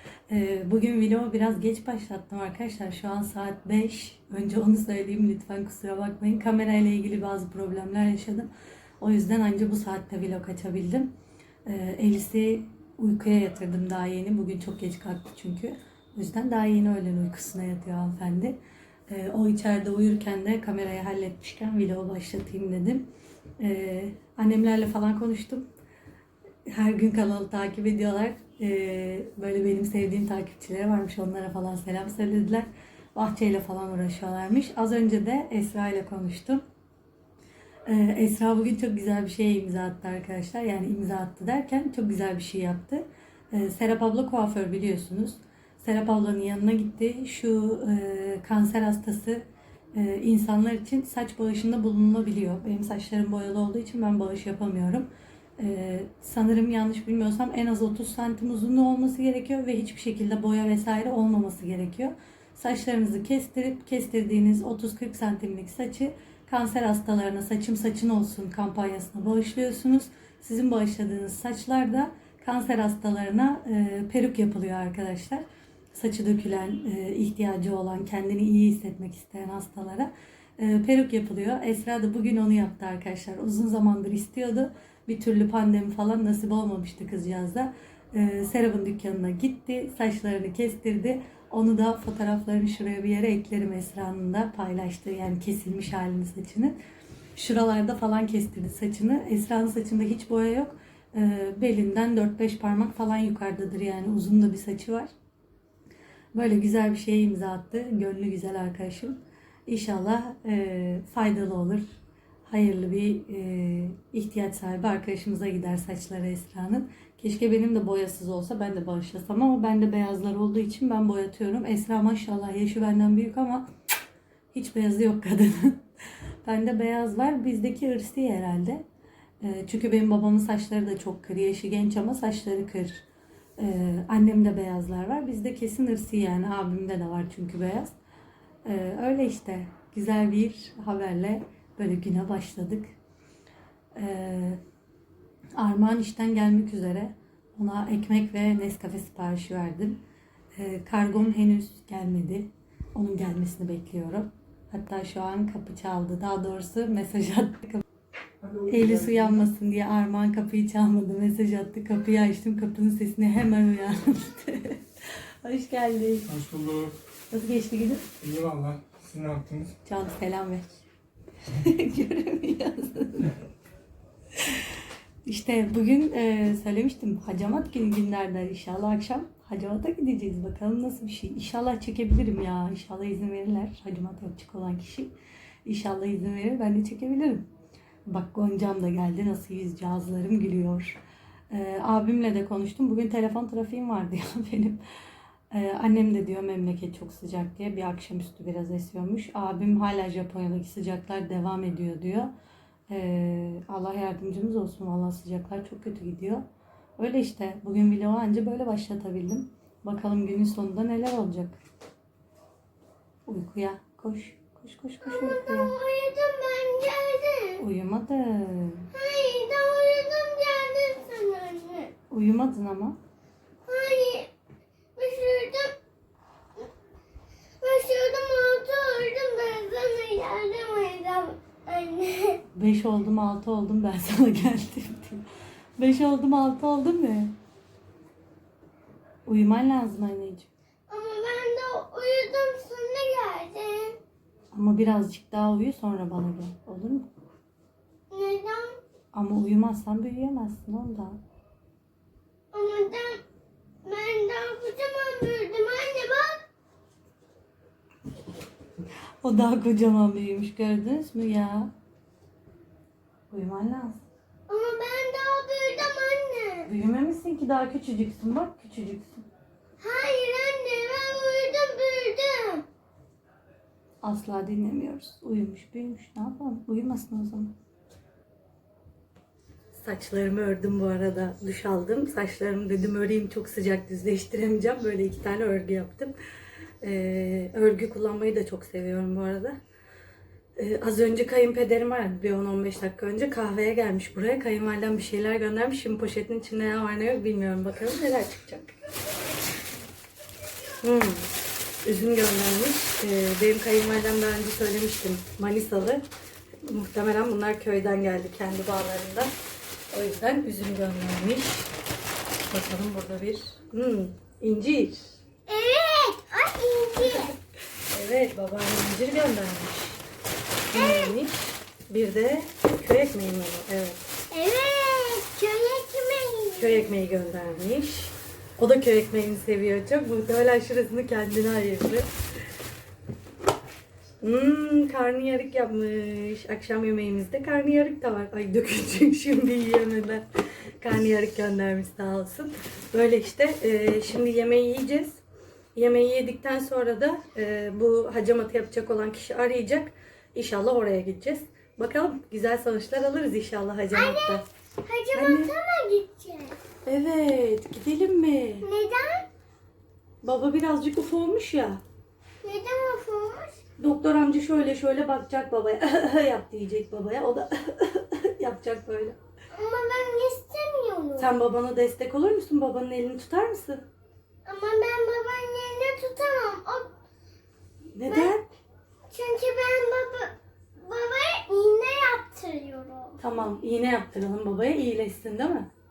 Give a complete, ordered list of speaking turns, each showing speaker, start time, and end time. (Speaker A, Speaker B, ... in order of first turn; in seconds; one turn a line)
Speaker A: 0.3-11.1
Speaker A: 11.7-18.6
Speaker A: 19.1-23.1
Speaker A: 23.6-25.7
Speaker A: 26.7-36.6
Speaker A: 37.9-96.8
Speaker A: 97.3-105.1
Speaker A: 106.3-123.7
Speaker A: 124.5-125.9
Speaker A: 126.4-128.8
Speaker A: 129.4-133.1
Speaker A: 133.6-137.9
Speaker A: 138.7-142.9
Speaker A: 143.9-144.6
Speaker A: 145.6-150.0
Speaker A: 150.6-157.8
Speaker B: 158.4-159.3
Speaker A: 158.7-166.4
Speaker B: 166.3-167.0
Speaker A: 167.3-168.1
Speaker B: 168.2-169.8
Speaker A: 169.8-170.8
Speaker A: 171.4-173.4
Speaker A: 174.3-185.1
Speaker A: 185.7-187.5
Speaker A: 188.1-191.0
Speaker A: 191.5-194.8
Speaker A: 195.5-202.3
Speaker A: 202.9-206.4
Speaker A: 207.0-211.6
Speaker A: 213.3-215.7
Speaker C: 215.0-217.6
Speaker A: 217.6-218.9
Speaker C: 218.9-221.9
Speaker A: 222.1-223.0
Speaker C: 223.7-224.3
Speaker C: 225.0-225.8
Speaker C: 227.6-232.4
Speaker A: 232.5-235.3
Speaker A: 235.8-237.4
Speaker A: 239.3-240.5
Speaker C: 240.9-244.0
Speaker A: 244.5-247.1
Speaker C: 248.1-248.8
Speaker A: 249.1-251.2
Speaker C: 252.5-253.2
Speaker C: 253.8-256.4
Speaker A: 259.2-261.7
Speaker A: 263.3-264.0
Speaker C: 264.5-266.7
Speaker A: 266.7-269.3
Speaker C: 269.8-272.7
Speaker A: 274.0-277.5
Speaker A: 279.8-286.2
Speaker A: 286.8-289.6
Speaker A: 290.6-298.8
Speaker A: 300.8-306.1
Speaker A: 306.6-309.4
Speaker A: 309.9-311.7
Speaker A: 312.4-315.2
Speaker C: 315.5-317.4
Speaker A: 317.0-317.3
Speaker A: 317.9-320.0
Speaker A: 320.7-324.1
Speaker C: 320.7-321.2
Speaker C: 324.3-326.9
Speaker A: 326.6-332.1
Speaker A: 334.2-340.3
Speaker A: 340.8-345.2
Speaker A: 345.8-354.4
Speaker C: 353.9-356.6
Speaker A: 355.1-355.5
Speaker A: 356.9-358.7
Speaker C: 358.6-359.3
Speaker A: 360.2-361.8
Speaker C: 362.4-363.6
Speaker A: 363.8-369.2
Speaker C: 369.6-371.3
Speaker A: 371.2-373.9
Speaker C: 374.5-377.0
Speaker A: 377.9-378.5
Speaker C: 378.1-378.3
Speaker C: 379.1-383.2
Speaker A: 383.2-385.7